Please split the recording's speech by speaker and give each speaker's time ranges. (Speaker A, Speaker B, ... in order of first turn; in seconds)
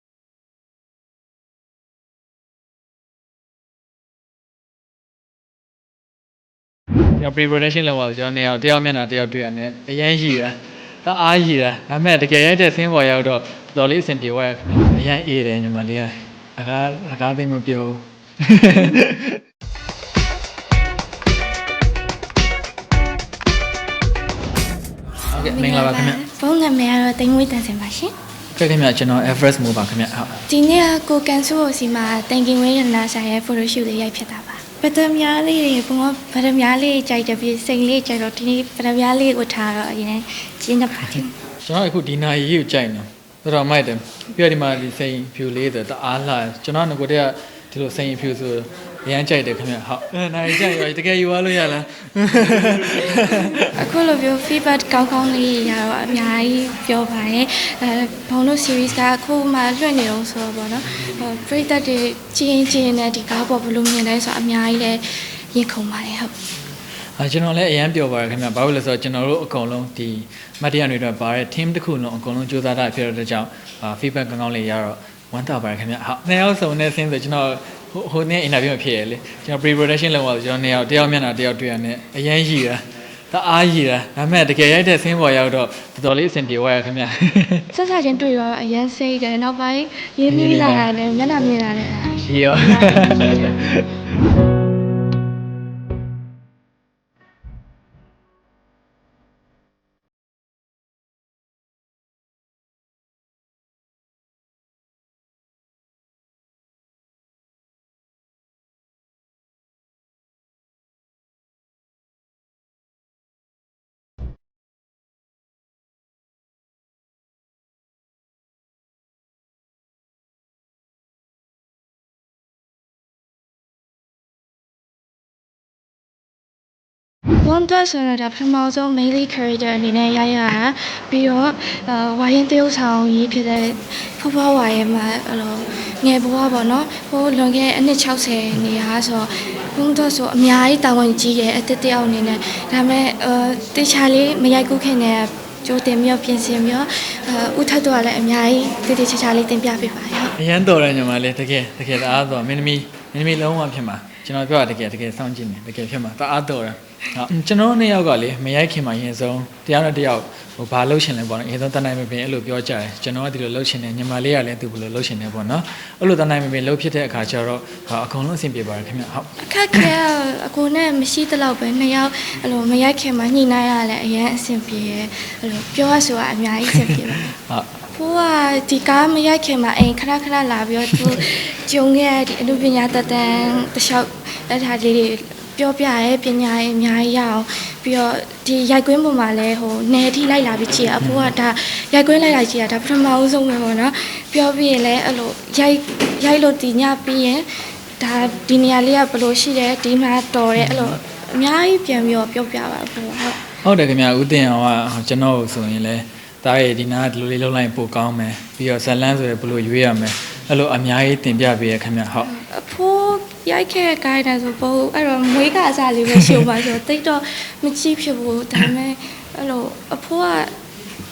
Speaker A: 7.2-19.4, 25.3-26.2, 28.5-30.4, 41.6-53.8, 67.2-87.7, 90.3-90.9, 92.2-93.9, 150.4-169.3, 176.8-177.7, 200.6-200.9, 203.6-212.3
Speaker B: 25.3-28.1, 30.5-41.3, 53.7-66.3, 87.7-92.2, 127.4-150.3, 169.4-197.4, 198.0-203.4, 212.2-220.5